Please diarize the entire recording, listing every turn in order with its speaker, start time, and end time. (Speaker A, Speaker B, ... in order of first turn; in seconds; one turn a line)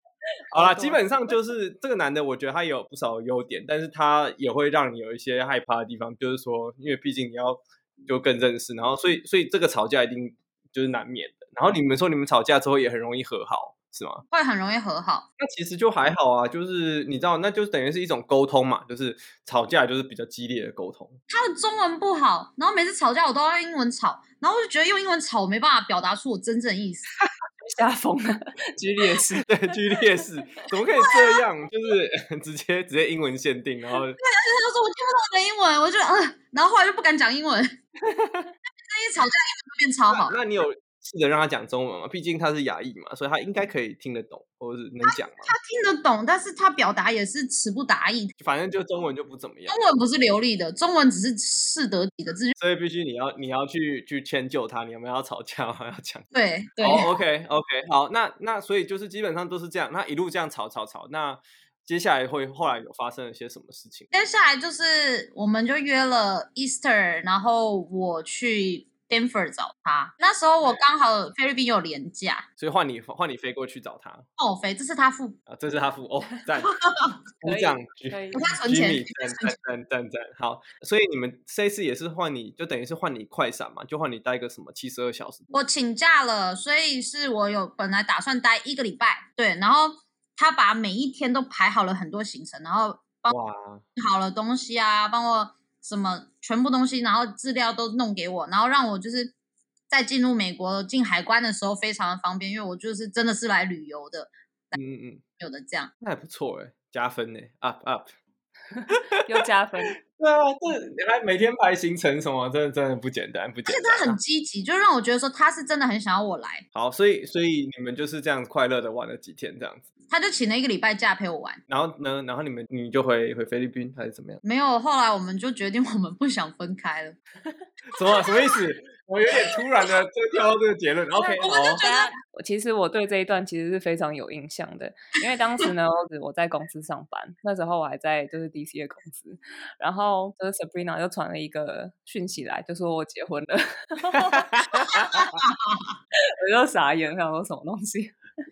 Speaker A: 0.5-14.2
Speaker B: 0.5-1.0
Speaker C: 14.3-15.3
Speaker A: 15.4-21.2
Speaker C: 21.3-27.1
Speaker B: 27.6-29.5
Speaker A: 29.4-34.2
Speaker C: 31.0-31.4
Speaker C: 34.2-37.8
Speaker C: 38.9-40.4
Speaker A: 40.1-45.5
Speaker C: 45.1-48.3
Speaker A: 48.4-49.8
Speaker C: 49.7-52.6
Speaker A: 52.6-56.3
Speaker C: 56.3-57.1
Speaker A: 56.8-64.1
Speaker C: 64.1-72.5
Speaker A: 72.6-74.3
Speaker C: 74.4-75.4
Speaker A: 75.5-76.7
Speaker C: 76.6-77.2
Speaker A: 77.4-85.5
Speaker B: 77.4-78.5
Speaker C: 78.3-79.5
Speaker C: 85.5-93.4
Speaker A: 93.3-93.8
Speaker C: 94.0-99.3
Speaker C: 99.9-104.8
Speaker A: 104.7-105.2
Speaker C: 105.4-105.9
Speaker A: 106.0-108.1
Speaker B: 108.7-110.0
Speaker A: 108.9-109.2
Speaker A: 110.0-114.2
Speaker C: 113.7-116.7
Speaker A: 116.7-119.9
Speaker C: 120.1-121.6
Speaker A: 121.7-124.4
Speaker C: 124.4-127.2
Speaker A: 127.9-131.8
Speaker B: 131.2-145.0
Speaker C: 131.4-132.1
Speaker A: 144.1-145.4
Speaker C: 144.9-145.9
Speaker B: 146.4-148.2